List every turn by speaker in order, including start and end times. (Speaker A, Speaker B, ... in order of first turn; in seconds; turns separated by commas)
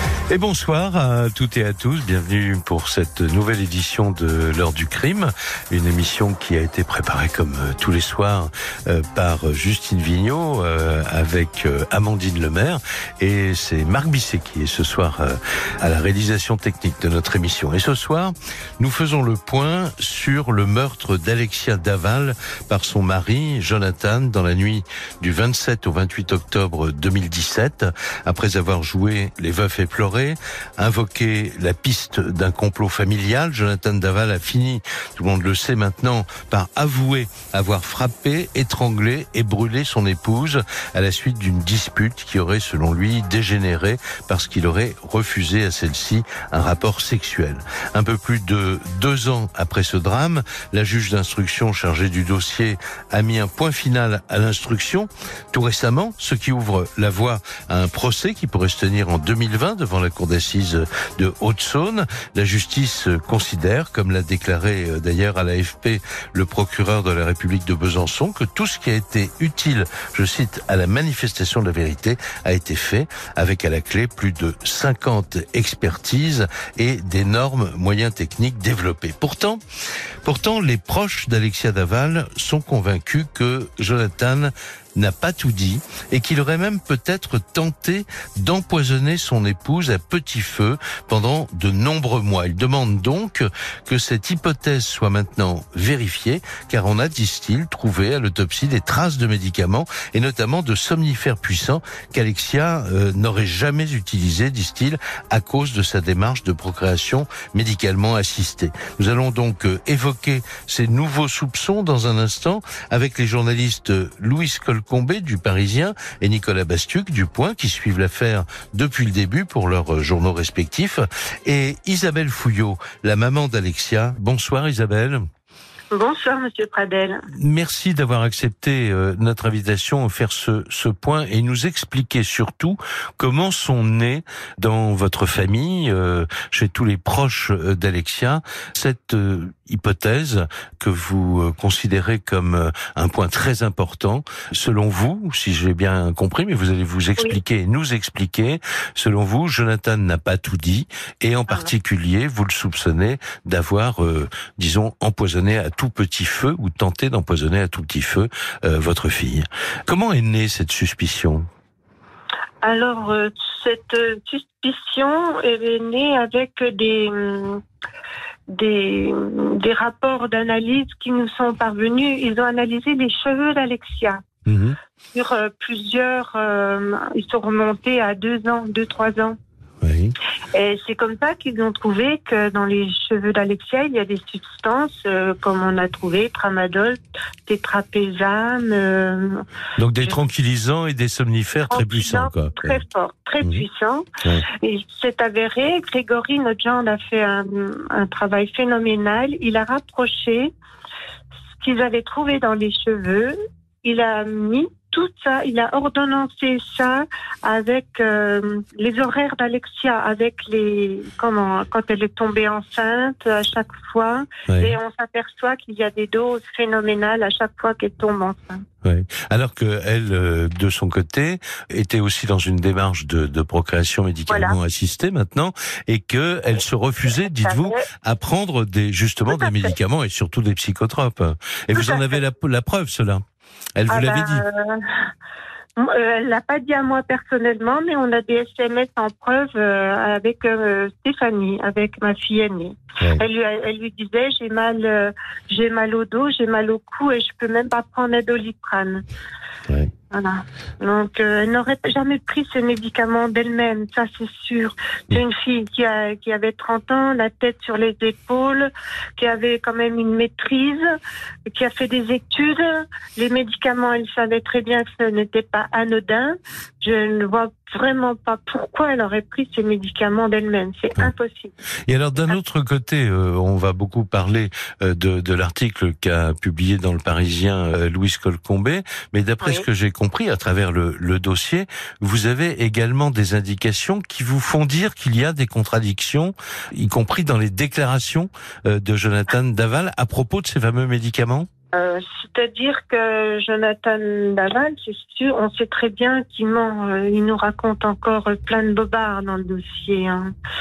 Speaker A: 0.3-79.6, Speaker A: 80.2-125.3, Speaker B: 125.9-127.2, Speaker A: 127.3-161.5, Speaker B: 162.6-167.6, Speaker B: 168.5-174.2, Speaker A: 174.5-174.8, Speaker B: 175.1-179.4, Speaker A: 179.8-180.2, Speaker B: 180.5-189.4, Speaker A: 189.8-192.8, Speaker B: 191.7-200.5, Speaker B: 201.6-218.6, Speaker A: 214.5-214.8, Speaker A: 218.8-233.2, Speaker B: 224.3-224.6, Speaker B: 227.3-227.8, Speaker B: 229.3-229.7, Speaker B: 231.8-232.2, Speaker A: 233.8-234.4, Speaker B: 233.9-234.9, Speaker B: 235.8-249.0, Speaker B: 250.1-260.8, Speaker B: 261.5-271.5, Speaker A: 271.9-291.5, Speaker B: 291.7-300.3